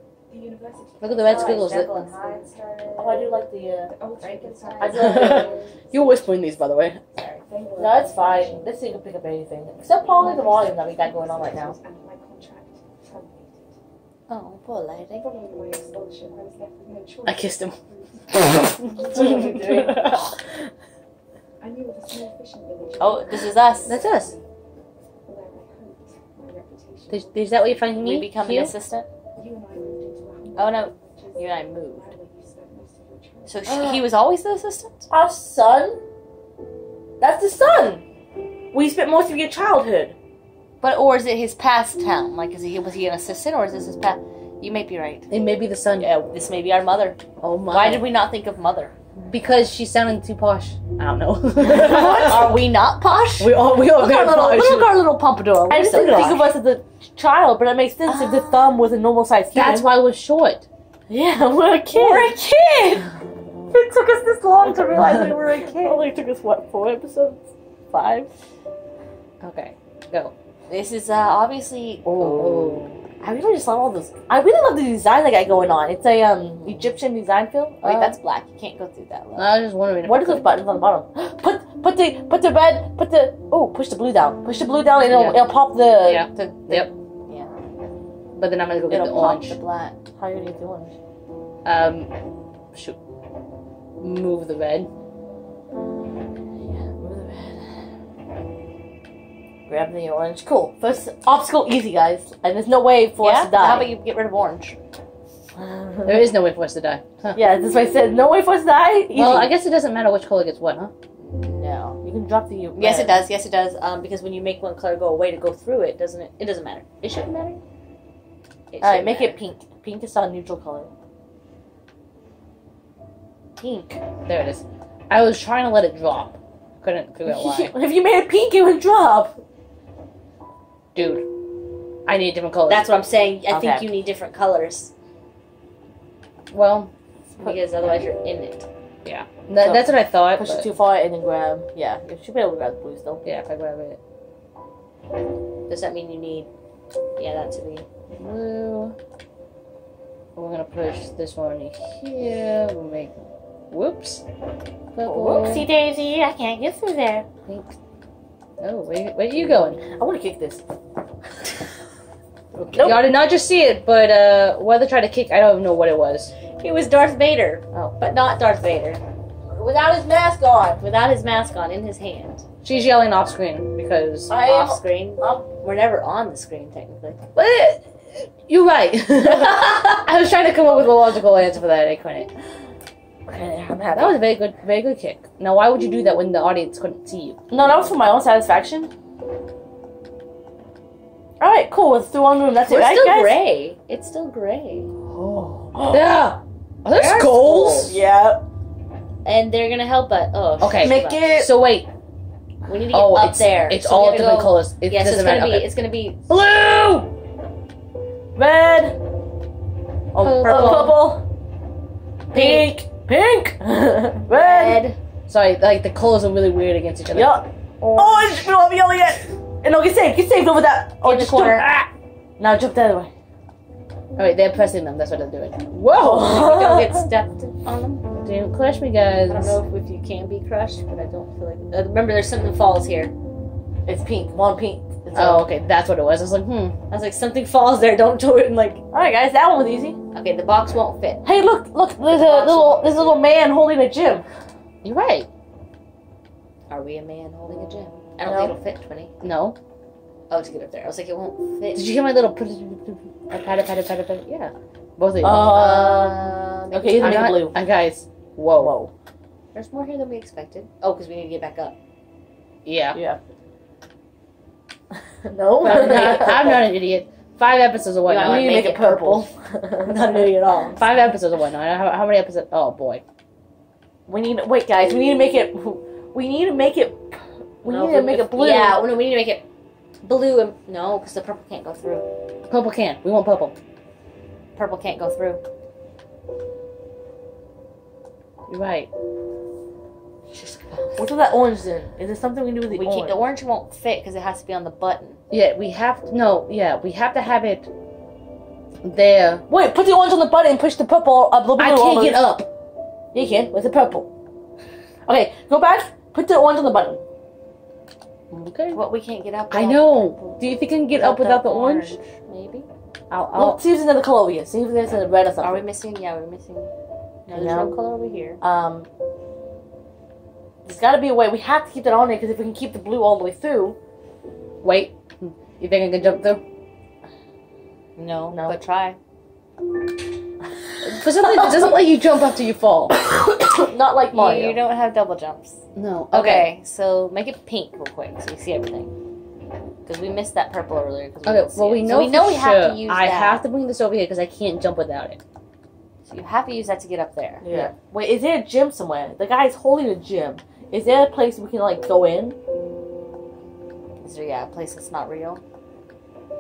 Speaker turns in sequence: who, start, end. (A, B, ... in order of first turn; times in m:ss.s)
0:00.3-0:02.5 A
0:01.0-0:01.8 B
0:01.1-0:03.3 C
0:01.4-0:02.1 D
0:03.0-0:03.9 D
0:03.9-0:06.3 A
0:04.2-0:05.6 C
0:04.8-0:05.5 D
0:05.9-0:07.0 B
0:07.1-0:07.4 C
0:07.4-0:08.7 A
0:07.8-0:11.8 D
0:09.9-0:13.7 A
0:14.3-0:15.3 C
0:15.2-0:19.7 A
0:17.2-0:17.8 B
0:18.3-0:20.4 B
0:19.1-0:20.2 D
0:21.6-0:24.5 A
0:23.0-0:24.0 C
0:23.8-0:24.3 B
0:25.2-0:28.2 A
0:27.1-0:28.7 B
0:27.9-0:29.1 C
0:29.4-0:33.7 A
0:30.6-0:32.1 C
0:33.5-0:35.1 C
0:33.7-0:34.0 D
0:35.1-0:36.0 D
0:37.2-0:38.0 D
0:38.7-0:40.2 D
0:40.8-0:45.2 C
0:45.3-0:46.1 B
0:46.0-0:48.9 C
0:47.4-0:48.1 B
0:49.3-0:52.4 B
0:51.6-0:53.5 C
0:53.4-0:54.9 B
0:53.5-0:54.7 D
0:54.1-0:56.5 C
0:55.7-0:59.9 D
0:55.9-0:56.5 B
0:59.5-1:00.6 B
1:01.1-1:02.3 D
1:01.9-1:03.1 C
1:03.7-1:08.3 D
1:09.4-1:10.3 B
1:10.7-1:12.2 C
1:12.0-1:18.2 D
1:12.2-1:13.0 B
1:17.8-1:19.4 C
1:19.4-1:20.5 B
1:20.0-1:26.2 D
1:25.1-1:25.4 B
1:26.0-1:26.9 B
1:26.3-1:27.5 C
1:28.3-1:29.6 B
1:28.9-1:30.0 C
1:30.2-1:31.0 D
1:31.6-1:32.1 B
1:34.0-1:34.9 B
1:36.7-1:37.7 D
1:39.7-1:43.9 D
1:43.2-1:44.8 C
1:45.6-1:46.3 D
1:46.0-1:47.4 B
1:47.3-1:49.5 D
1:49.1-1:50.9 B
1:51.2-1:52.0 C
1:52.0-1:53.2 D
1:52.7-1:57.6 C
1:58.7-1:59.4 C
1:58.8-2:00.9 D
2:03.6-2:04.0 C
2:04.3-2:07.7 B
2:07.2-2:09.4 D
2:10.9-2:11.3 B
2:12.0-2:12.9 B
2:12.7-2:14.9 C
2:13.5-2:13.9 D
2:16.5-2:16.9 B
2:17.4-2:18.6 C
2:19.0-2:20.7 B
2:19.6-2:23.2 D
2:23.2-2:24.0 B
2:25.7-2:26.5 C
2:27.2-2:27.8 C
2:28.1-2:29.0 B
2:30.4-2:33.1 B
2:33.7-2:34.2 B
2:34.9-2:35.7 B
2:35.1-2:37.2 C
2:37.5-2:37.7 B
2:38.6-2:39.8 B
2:39.5-2:40.6 D
2:42.6-2:43.1 D
2:42.7-2:46.3 B
2:46.6-2:49.0 C
2:49.5-2:50.8 D
2:50.8-2:52.4 C
2:52.6-2:54.4 B
2:54.3-2:55.4 D
2:54.3-2:57.2 C
2:57.3-3:02.3 B
3:03.3-3:04.2 D
3:03.9-3:07.4 B
3:07.5-3:08.9 D
3:11.4-3:13.4 D
3:12.6-3:14.9 C
3:15.1-3:17.9 B
3:15.7-3:16.1 D
3:16.9-3:17.9 C
3:17.4-3:18.4 D
3:19.2-3:21.3 C
3:20.6-3:21.9 B
3:20.7-3:21.6 D
3:22.6-3:26.3 C
3:22.9-3:25.8 B
3:26.3-3:27.1 B
3:28.4-3:29.0 D
3:30.1-3:31.2 D
3:30.2-3:31.0 B
3:30.4-3:30.9 C
3:32.3-3:34.8 D
3:32.3-3:32.8 C
3:34.3-3:35.0 C
3:35.3-3:37.4 B
3:37.1-3:41.7 D
3:37.8-3:38.3 C
3:41.0-3:41.6 C
3:41.4-3:41.9 B
3:42.4-3:43.1 D
3:44.2-3:46.4 B
3:45.9-3:47.0 D
3:46.2-3:48.0 C
3:48.1-3:49.6 B
3:49.3-3:53.1 C
3:53.8-3:55.5 D
3:55.1-3:56.8 B
3:56.9-3:58.8 C
3:58.9-4:00.0 D
4:00.1-4:01.2 C
4:01.2-4:04.2 D
4:02.1-4:03.2 C
4:04.8-4:05.3 B
4:06.7-4:09.1 C
4:08.2-4:08.5 D
4:09.2-4:09.6 B
4:10.3-4:11.8 C
4:11.7-4:15.6 B
4:15.2-4:17.6 D
4:15.4-4:17.4 C
4:17.0-4:18.8 B
4:18.6-4:18.9 D
4:19.5-4:21.8 C
4:22.6-4:23.0 B
4:22.9-4:23.2 D
4:25.2-4:26.6 D
4:25.6-4:26.4 C
4:25.6-4:29.1 B
4:28.0-4:29.2 C
4:28.2-4:30.8 D
4:29.9-4:33.0 B
4:34.1-4:38.8 D
4:37.6-4:39.4 C
4:40.0-4:42.0 C
4:42.5-4:43.6 B
4:44.6-4:45.4 C
4:48.5-4:48.9 B
4:50.3-4:51.1 C
4:51.0-4:53.2 D
4:52.7-4:55.2 C
4:55.3-4:57.7 B
4:58.8-4:59.4 B
4:59.5-5:02.2 D
5:01.6-5:02.5 B
5:03.1-5:04.1 D
5:05.0-5:07.0 D
5:08.3-5:08.8 B
5:08.7-5:12.7 C
5:09.5-5:12.0 B
5:13.1-5:13.6 B
5:13.3-5:15.6 D
5:15.4-5:16.7 C
5:17.3-5:18.4 C
5:17.3-5:17.7 D
5:18.4-5:18.9 D
5:20.6-5:23.8 D
5:24.6-5:26.4 B
5:28.0-5:29.0 C
5:28.3-5:28.6 D
5:30.8-5:32.9 B
5:33.0-5:34.6 D
5:34.1-5:38.9 C
5:35.7-5:36.5 B
5:39.8-5:43.4 C
5:41.2-5:45.2 B
5:46.1-5:47.4 C
5:47.4-5:52.4 D
5:54.0-5:55.4 C